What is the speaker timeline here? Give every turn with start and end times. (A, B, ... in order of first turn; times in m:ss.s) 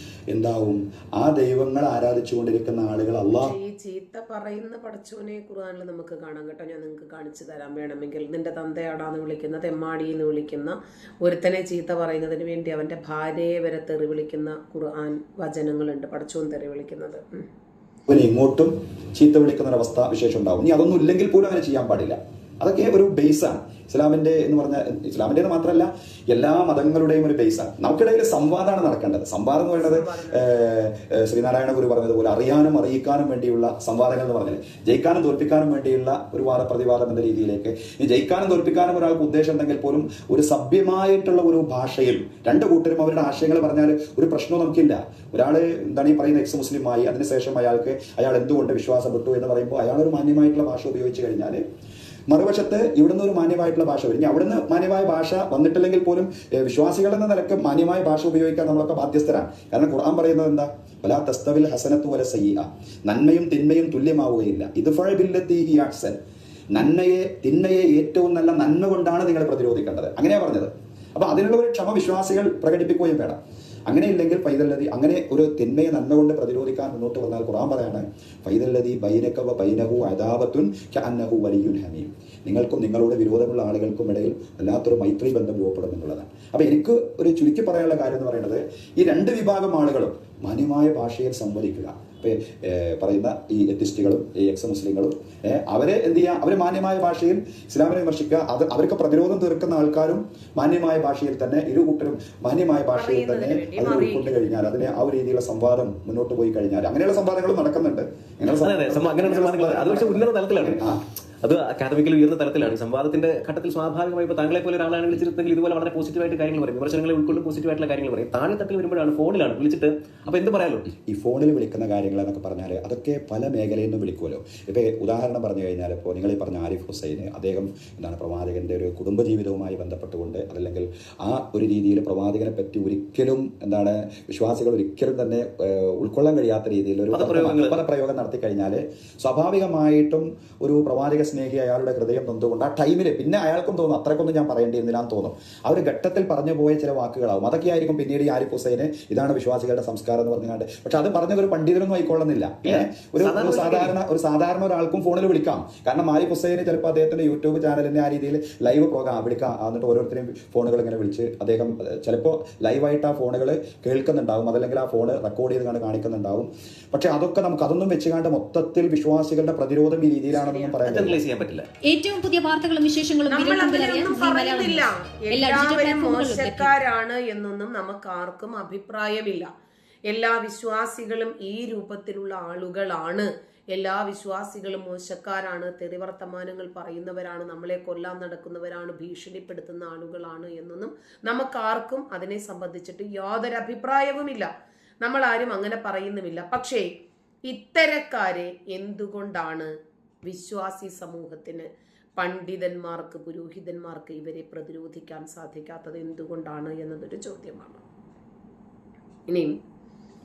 0:00.3-0:03.5 A
0:03.4-0:17.5 B
0:18.1-0:51.6 A
0:29.7-0:30.5 B
0:52.3-1:06.2 A
1:06.7-1:51.0 A
1:42.9-1:44.5 B
1:48.6-2:00.9 C
2:01.0-2:51.2 A
2:17.1-2:17.8 C
2:32.6-2:33.9 C
2:50.3-2:50.8 B
2:50.8-2:51.7 C
2:51.8-2:56.7 D
2:53.3-2:59.5 B
3:00.0-3:14.5 B
3:15.0-3:16.9 B
3:17.5-3:19.7 B
3:20.2-3:27.8 B
3:29.3-3:29.6 B